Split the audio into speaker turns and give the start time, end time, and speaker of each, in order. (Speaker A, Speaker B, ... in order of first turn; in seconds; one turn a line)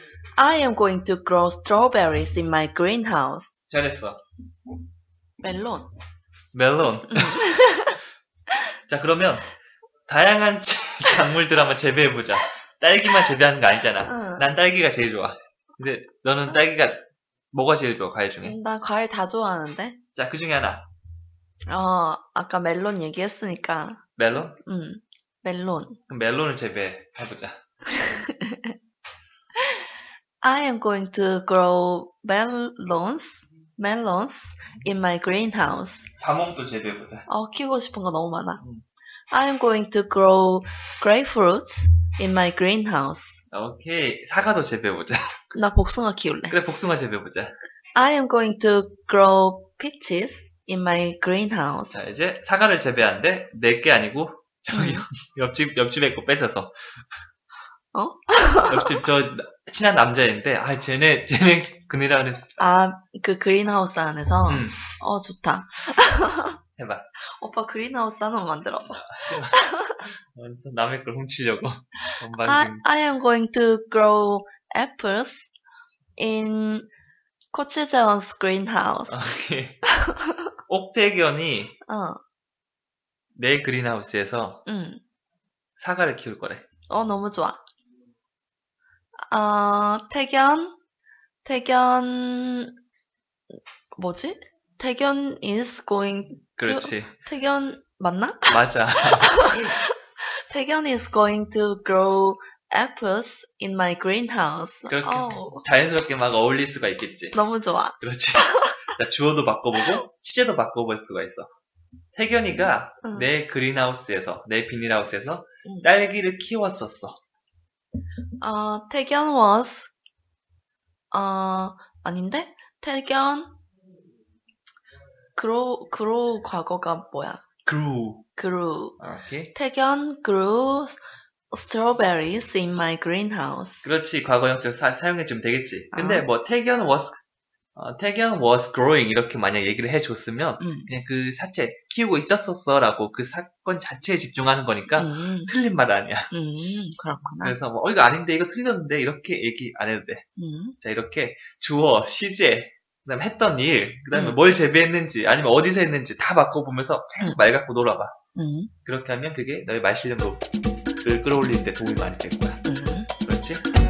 Speaker A: 0.4-3.5
Speaker B: 3.7-4.2
Speaker A: 5.4-5.9
Speaker B: 6.5-7.4
Speaker A: 7.1-8.0
Speaker B: 8.9-9.5
Speaker B: 10.1-18.6
Speaker A: 14.0-14.4
Speaker A: 18.4-20.0
Speaker B: 20.1-20.9
Speaker A: 21.7-24.0
Speaker B: 24.2-24.6
Speaker A: 24.6-26.0
Speaker B: 26.1-27.6
Speaker A: 27.9-28.7
Speaker A: 30.4-36.1
Speaker B: 36.2-37.2
Speaker A: 37.3-38.6
Speaker A: 39.3-43.4
Speaker B: 43.5-45.4
Speaker A: 45.5-46.5
Speaker B: 46.5-47.5
Speaker A: 47.9-52.0
Speaker B: 51.9-56.7
Speaker A: 54.7-55.0
Speaker A: 57.9-58.9
Speaker B: 58.7-62.6
Speaker A: 62.6-66.6
Speaker B: 64.5-64.8
Speaker B: 66.8-67.1
Speaker A: 67.4-70.0
Speaker B: 68.9-72.8
Speaker A: 72.4-75.5
Speaker A: 76.2-76.9
Speaker A: 77.5-79.2
Speaker B: 79.1-79.8
Speaker A: 79.9-80.4
Speaker B: 80.7-81.8
Speaker A: 81.9-82.2
Speaker B: 83.4-84.6
Speaker A: 84.7-85.0
Speaker B: 85.8-86.6
Speaker A: 86.9-87.6
Speaker A: 89.3-90.8
Speaker A: 91.4-92.7
Speaker A: 93.9-98.6
Speaker B: 96.6-97.2
Speaker B: 98.5-99.7
Speaker A: 99.2-105.7
Speaker B: 104.9-107.4
Speaker A: 107.3-108.8
Speaker B: 108.0-111.5
Speaker B: 112.1-117.2
Speaker A: 113.0-113.3
Speaker A: 118.4-119.9
Speaker A: 121.1-123.6
Speaker A: 125.3-127.4
Speaker B: 127.6-128.2
Speaker A: 128.4-129.0
Speaker B: 129.0-129.5
Speaker A: 129.5-133.8
Speaker B: 133.8-137.2
Speaker A: 135.9-136.2
Speaker B: 137.7-146.3
Speaker A: 140.6-140.9
Speaker A: 144.9-145.5
Speaker A: 146.3-147.6
Speaker B: 147.4-150.2
Speaker A: 150.4-150.8
Speaker B: 150.8-158.1
Speaker A: 154.1-154.4
Speaker A: 158.3-158.7
Speaker B: 158.8-160.4
Speaker B: 161.0-162.6
Speaker A: 162.7-163.1
Speaker B: 163.2-163.6